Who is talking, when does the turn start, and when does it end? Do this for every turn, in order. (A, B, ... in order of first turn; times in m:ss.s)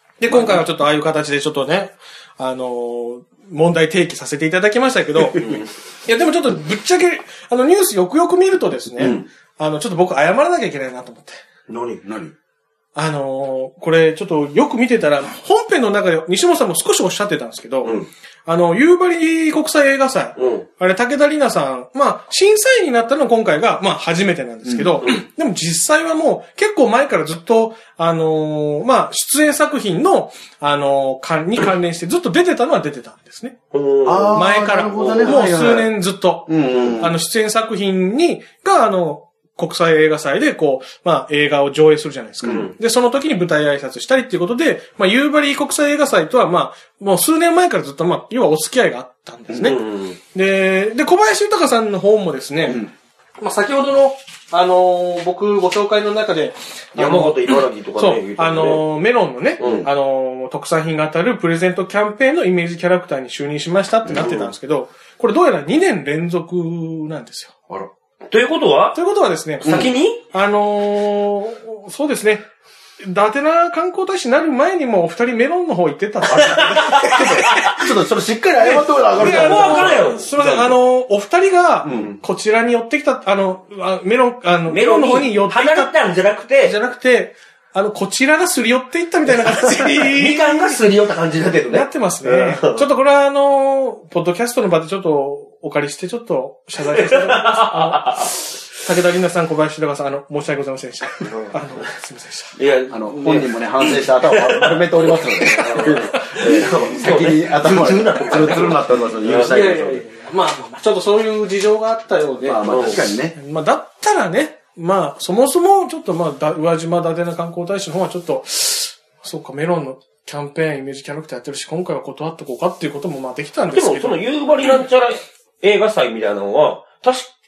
0:00.2-0:11.4 A
0:00.3-0:00.6 B
0:05.3-0:05.7 C
0:09.0-0:09.2 C
0:11.7-0:12.0 C
0:11.9-0:12.3 B
0:13.0-0:33.6 A
0:20.4-0:20.6 C
0:24.6-0:24.9 B
0:33.7-0:35.5 C
0:34.0-0:35.9 B
0:34.3-0:49.8 A
0:36.5-0:37.2 B
0:42.4-0:42.7 B
0:42.4-0:42.7 C
0:49.5-0:50.2 C
0:50.3-0:52.8 A
0:52.6-0:52.9 B
0:53.4-1:07.6 A
0:57.0-0:58.8 C
0:59.6-0:59.9 C
0:59.6-0:59.9 B
1:04.1-1:04.5 C
1:07.7-1:09.0 C
1:08.9-1:12.4 A
1:09.6-1:10.2 C
1:09.6-1:09.9 B
1:13.0-1:17.7 A
1:16.3-1:17.7 C
1:16.9-1:20.8 B
1:18.6-1:25.9 A
1:19.1-1:20.3 C
1:21.8-1:22.1 B
1:21.9-1:22.2 C
1:24.7-1:26.7 C
1:26.6-1:30.8 A
1:29.3-1:32.8 C
1:31.7-1:42.5 A
1:36.9-1:38.3 C
1:41.2-1:41.9 C
1:42.6-1:49.6 C
1:42.9-1:50.0 B
1:45.5-1:46.6 A
1:49.3-2:04.2 A
1:52.4-1:53.3 B
1:52.6-1:53.1 C
2:03.7-2:07.3 C